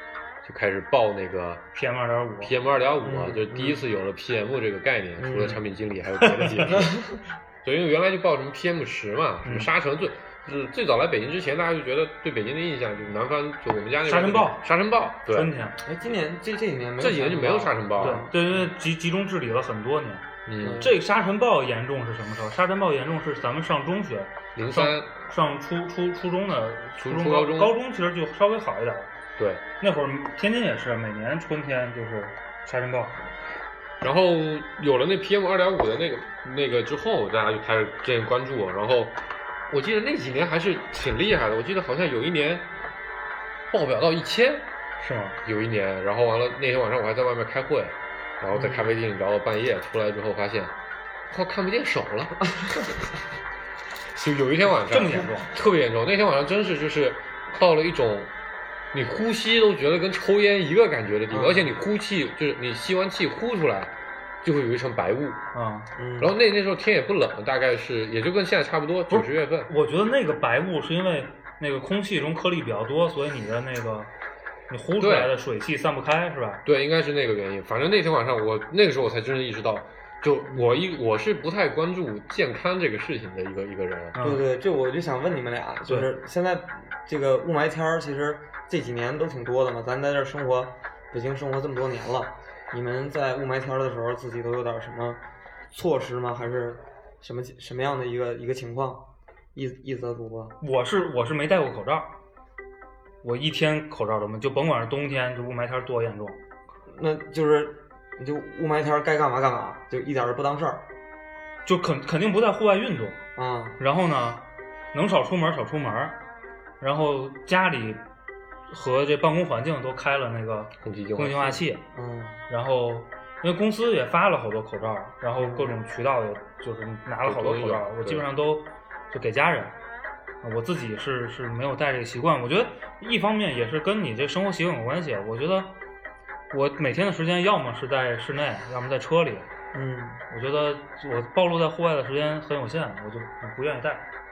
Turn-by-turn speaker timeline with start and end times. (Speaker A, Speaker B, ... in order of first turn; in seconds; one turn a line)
Speaker A: 0.4-1.7
Speaker B: 1.7-2.5
Speaker A: 2.4-7.1
Speaker C: 3.0-3.8
Speaker C: 5.2-5.6
Speaker C: 6.7-7.1
Speaker A: 7.6-15.5
Speaker B: 9.4-9.7
Speaker B: 14.0-14.7
Speaker B: 15.3-15.8
Speaker C: 15.8-18.7
Speaker A: 17.0-18.2
Speaker B: 18.0-20.3
Speaker A: 20.4-20.9
Speaker C: 20.6-21.0
Speaker B: 20.8-29.1
Speaker A: 24.5-25.1
Speaker A: 27.0-27.7
Speaker A: 29.4-29.6
Speaker B: 29.8-33.2
Speaker A: 34.0-42.7
Speaker A: 43.7-44.6
Speaker B: 45.0-45.4
Speaker A: 45.4-50.7
Speaker C: 48.5-49.0
Speaker A: 51.3-52.4
Speaker A: 54.1-58.3
Speaker B: 54.9-55.5
Speaker A: 58.9-65.4
Speaker C: 61.3-61.7
Speaker B: 65.5-65.9
Speaker C: 65.9-66.3
Speaker A: 66.2-69.7
Speaker B: 69.1-74.1
Speaker B: 74.7-76.6
Speaker A: 75.0-75.3
Speaker A: 76.6-84.2
Speaker B: 84.1-84.4
Speaker C: 84.2-95.2
Speaker C: 95.7-99.0
Speaker C: 99.5-100.6
Speaker B: 100.6-102.1
Speaker B: 103.2-106.4
Speaker C: 106.9-110.8
Speaker B: 111.7-113.2
Speaker C: 113.3-113.8
Speaker B: 113.8-116.2
Speaker B: 116.8-118.0
Speaker B: 118.7-121.8
Speaker A: 120.8-121.6
Speaker C: 121.9-122.4
Speaker B: 122.5-129.8
Speaker C: 125.4-125.7
Speaker A: 127.2-128.2
Speaker B: 130.4-135.7
Speaker B: 136.5-139.5
Speaker C: 139.7-140.2
Speaker B: 140.3-144.1